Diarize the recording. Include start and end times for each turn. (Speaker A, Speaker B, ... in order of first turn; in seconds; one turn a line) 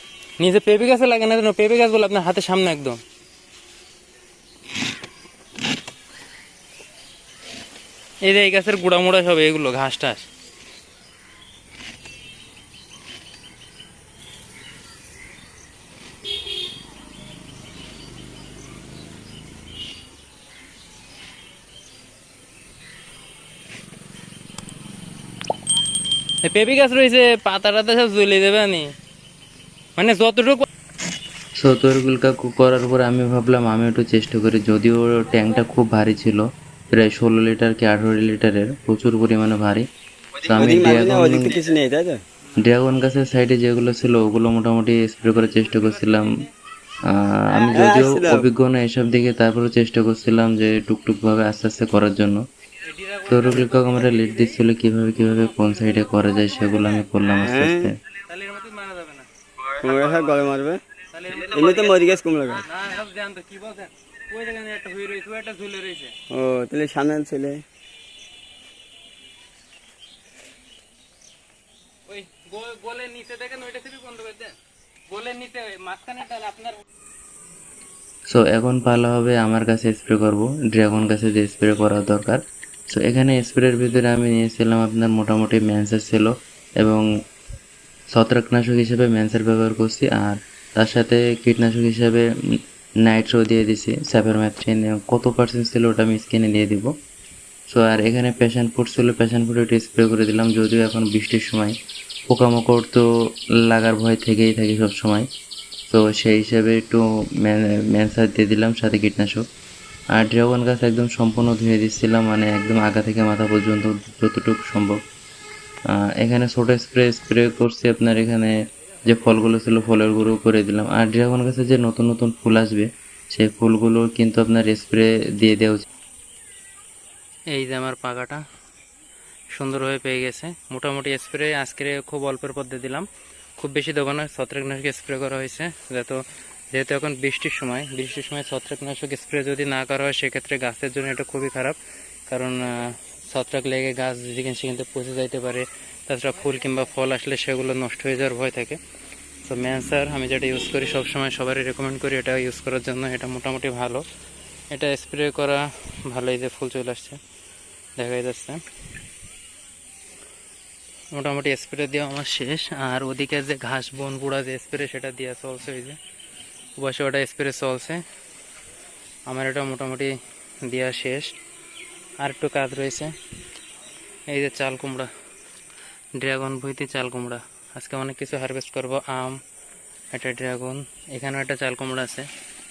Speaker A: 0.4-3.0
Speaker A: 8.2-10.3
Speaker A: 26.4-28.9
Speaker A: 30.0-30.7
Speaker B: 31.6-39.9
Speaker B: 40.4-41.6
Speaker C: 40.5-42.2
Speaker B: 42.6-46.4
Speaker B: 47.1-52.5
Speaker C: 47.6-48.5
Speaker A: 52.8-54.6
Speaker B: 53.3-58.0
Speaker C: 57.4-57.9
Speaker A: 58.3-59.3
Speaker C: 59.7-60.8
Speaker A: 59.8-60.2
Speaker A: 61.1-66.2
Speaker C: 61.5-62.6
Speaker C: 66.3-67.6
Speaker A: 72.1-74.6
Speaker A: 75.1-76.8
Speaker B: 78.3-87.0
Speaker B: 88.1-96.9
Speaker B: 97.7-101.8
Speaker B: 102.3-105.3
Speaker B: 105.9-109.5
Speaker B: 110.2-115.0
Speaker B: 116.0-125.8
Speaker A: 127.5-128.4
Speaker A: 129.5-148.8
Speaker A: 149.4-154.1
Speaker A: 154.7-157.2
Speaker A: 158.0-158.6
Speaker A: 161.1-166.0
Speaker A: 166.8-168.0
Speaker A: 169.3-171.3
Speaker A: 172.2-173.2
Speaker A: 174.3-175.1
Speaker A: 176.2-179.4
Speaker A: 180.1-182.3